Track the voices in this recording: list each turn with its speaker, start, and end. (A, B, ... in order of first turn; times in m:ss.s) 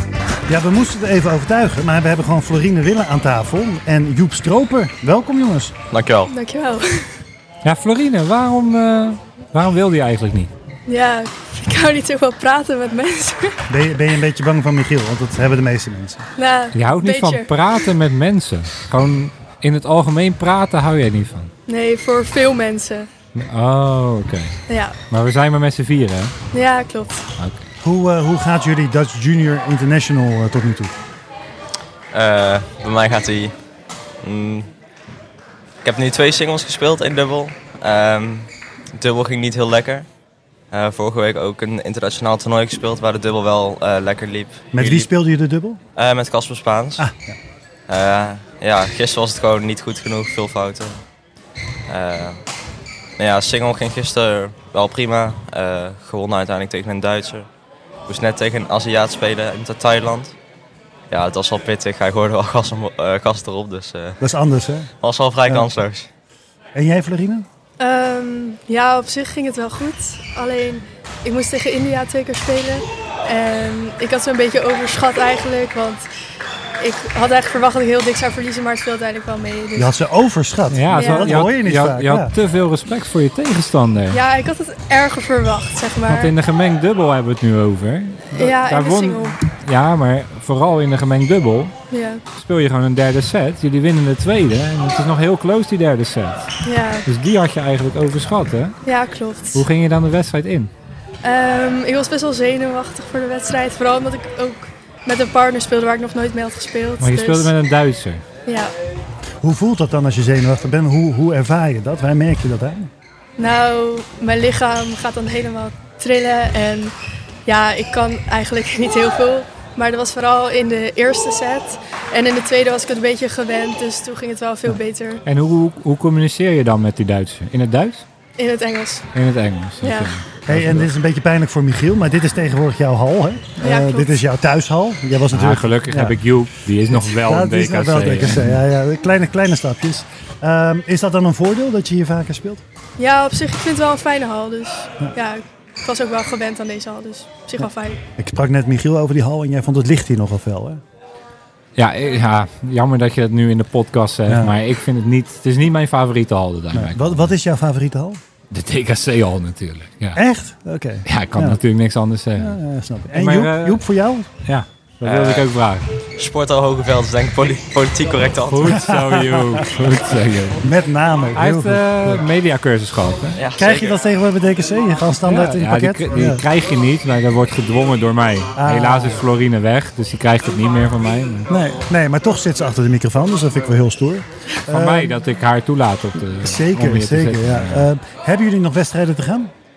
0:00.5-0:05.8 A
0:05.9-0:06.3 B
0:06.2-0:07.1 C
0:07.6-0:10.5 D
0:10.8-0:13.6 C
0:13.7-0:16.2 A
0:16.4-0:17.7 C
0:16.7-0:21.5 D
0:21.7-0:23.1 C
0:23.3-0:24.5 D
0:24.7-0:25.0 C
0:25.1-0:26.3 D
0:26.5-0:27.2 C
0:27.4-0:27.6 D
0:27.8-0:30.9 A
0:32.1-0:33.5 B
0:34.2-0:34.7 B
0:35.8-0:40.0 B
0:40.7-0:45.1 B
0:44.7-0:45.8 A
0:46.0-0:47.0 B
0:47.0-0:47.4 A
0:47.9-0:51.0 B
0:51.9-0:52.4 B
0:53.2-0:57.5 B
0:58.1-1:00.3 B
1:01.1-1:04.2 B
1:04.2-1:04.9 A
1:05.0-1:06.1 B
1:06.7-1:07.4 A
1:07.8-1:16.1 C
1:16.8-1:19.9 C
1:19.8-1:22.3 A
1:20.7-1:24.2 D
1:20.9-1:21.4 C
1:24.1-1:26.3 C
1:26.1-1:31.7 D
1:28.3-1:29.4 C
1:31.9-1:32.2 C
1:32.3-1:36.5 D
1:36.6-1:37.1 C
1:37.0-1:38.8 D
1:38.8-1:39.6 C
1:39.5-1:40.7 D
1:41.2-1:47.5 C
1:47.0-1:48.2 D
1:48.4-1:48.7 C
1:49.4-1:52.9 A
1:53.4-1:56.9 C
1:57.4-2:05.2 C
2:05.2-2:08.0 D
2:08.4-2:09.1 C
2:09.1-2:10.9 D
2:09.8-2:10.2 C
2:10.5-2:16.2 A
2:13.6-2:14.2 C
2:15.3-2:18.6 D
2:16.9-2:22.6 A
2:23.0-2:28.0 C
2:28.2-2:30.8 A
2:31.8-2:37.3 D
2:34.3-2:34.6 A
2:36.7-2:38.2 A
2:38.5-2:40.2 D
2:40.1-2:41.6 A
2:41.0-2:42.6 D
2:42.4-2:44.3 A
2:43.1-2:43.8 D
2:44.4-2:45.8 D
2:45.0-2:45.5 B
2:46.2-2:48.9 B
2:48.5-2:50.6 D
2:48.6-2:49.6 A
2:50.6-2:52.2 A
2:51.3-2:53.4 D
2:53.4-2:54.0 B
2:53.6-2:56.4 A
2:55.2-3:01.5 D
2:58.6-2:59.2 A
3:01.5-3:05.2 A
3:04.7-3:07.9 D
3:06.4-3:09.5 A